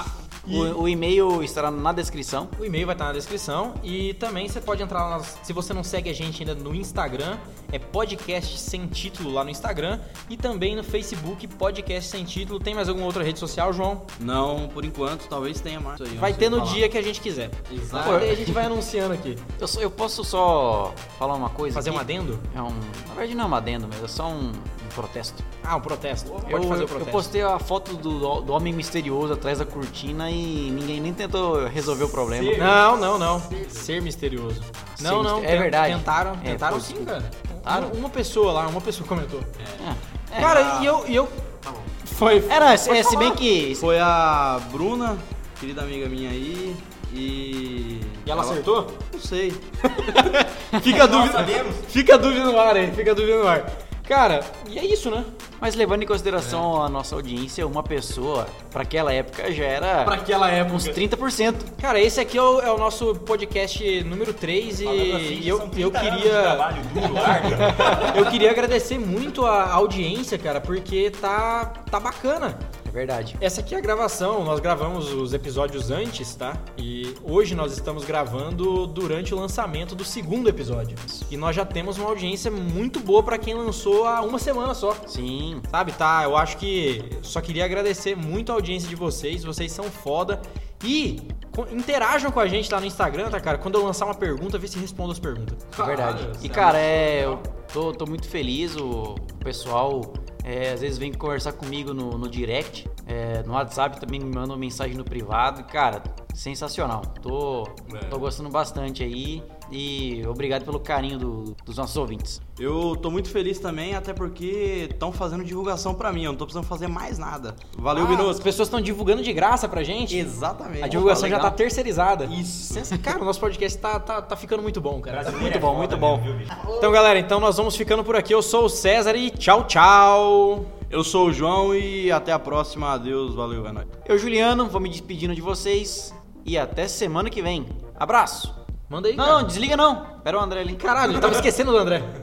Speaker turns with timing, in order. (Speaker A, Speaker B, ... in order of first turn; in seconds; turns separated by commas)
Speaker A: 0.5-0.8, Speaker B: 0.5-2.5, Speaker A: 2.6-14.1, Speaker C: 14.2-16.9, Speaker A: 16.1-19.4, Speaker C: 17.7-18.4, Speaker B: 18.0-18.5, Speaker B: 19.6-25.4, Speaker A: 21.7-22.4, Speaker A: 25.6-27.3, Speaker B: 26.4-32.8, Speaker C: 32.4-32.8, Speaker A: 32.4-39.5, Speaker C: 33.5-33.8, Speaker B: 34.8-37.9, Speaker C: 39.6-39.9, Speaker B: 39.8-40.8, Speaker C: 40.4-40.9, Speaker A: 40.4-43.4, Speaker B: 42.5-43.8, Speaker C: 43.8-48.6, Speaker A: 48.2-49.0, Speaker C: 49.1-49.6, Speaker A: 49.9-55.3, Speaker D: 50.8-51.9, Speaker B: 55.6-61.7, Speaker C: 56.4-56.7, Speaker A: 60.0-61.0, Speaker A: 61.8-72.6, Speaker D: 64.8-68.2, Speaker B: 72.8-73.4, Speaker A: 73.4-85.0, Speaker B: 85.1-85.7, Speaker A: 85.7-95.8, Speaker C: 95.7-97.4, Speaker B: 95.8-112.4, Speaker C: 107.9-108.2, Speaker C: 112.6-118.4, Speaker A: 117.9-125.6, Speaker C: 120.1-121.6, Speaker C: 122.2-122.9, Speaker D: 125.1-126.6, Speaker B: 125.2-126.2, Speaker C: 126.6-126.9, Speaker A: 126.8-130.7, Speaker C: 130.9-133.9, Speaker B: 134.0-138.4, Speaker A: 138.0-139.5, Speaker B: 139.2-140.8, Speaker A: 140.8-142.1